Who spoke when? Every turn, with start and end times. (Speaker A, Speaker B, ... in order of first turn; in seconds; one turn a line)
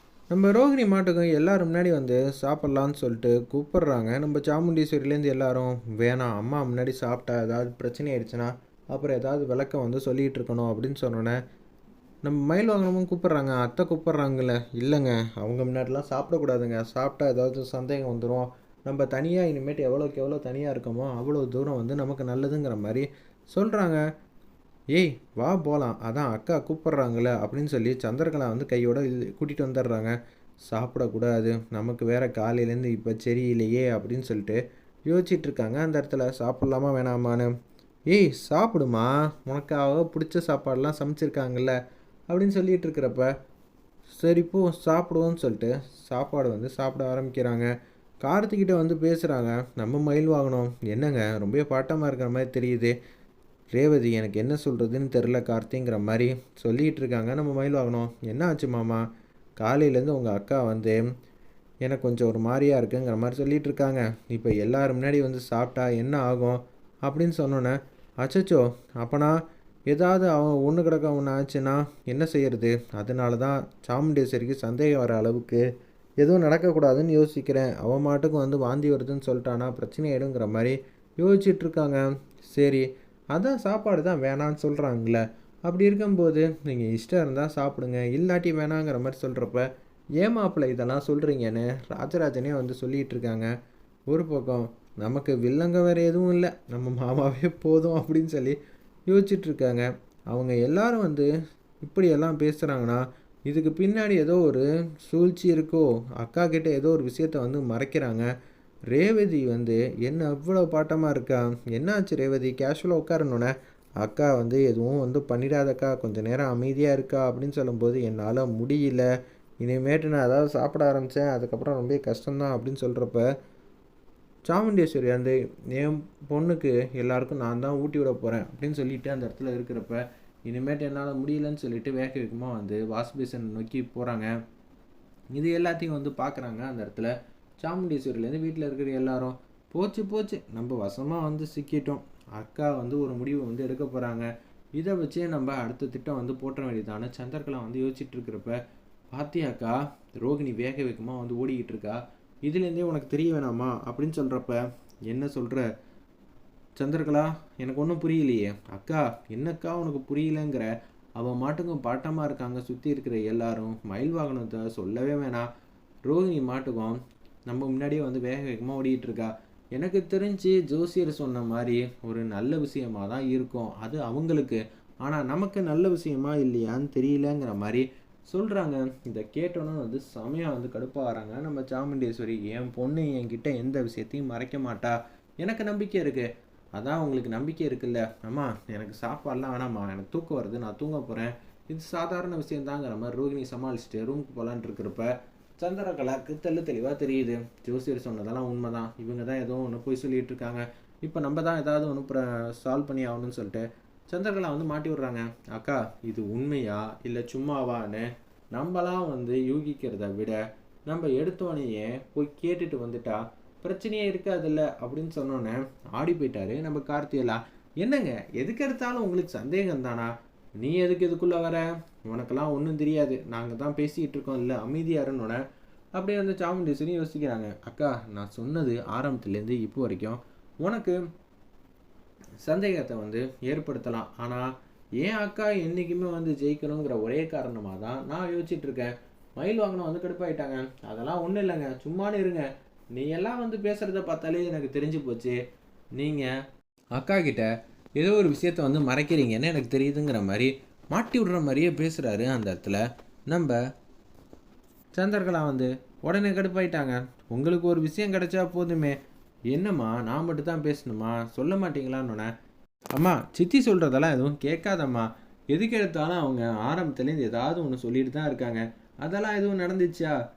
Speaker A: 0.3-11.3
Speaker A: 12.2-24.0
Speaker A: 24.9-30.1
Speaker A: 30.7-37.5
Speaker A: 38.1-41.8
Speaker A: 42.3-43.3
Speaker A: 44.1-47.7
Speaker A: 48.2-52.9
Speaker A: 53.7-59.0
Speaker A: 59.6-61.0
Speaker A: 61.8-69.3
Speaker A: 69.9-75.6
Speaker A: 76.2-89.7
Speaker A: 90.2-93.5
Speaker A: 94.1-98.6
Speaker A: 99.1-101.3
Speaker A: 101.8-108.3
Speaker A: 108.9-119.1
Speaker A: 119.6-123.2
Speaker A: 124.5-134.3
Speaker A: 135.3-148.6
Speaker A: 149.1-155.7
Speaker A: 156.8-165.4
Speaker A: 166.1-167.0
Speaker A: 167.5-225.4
Speaker A: 225.9-231.0
Speaker A: 232.4-234.5
Speaker A: 235.0-245.4
Speaker A: 246.0-246.3
Speaker A: 246.9-253.6
Speaker A: 254.9-259.0
Speaker A: 259.5-262.3
Speaker A: 262.9-270.1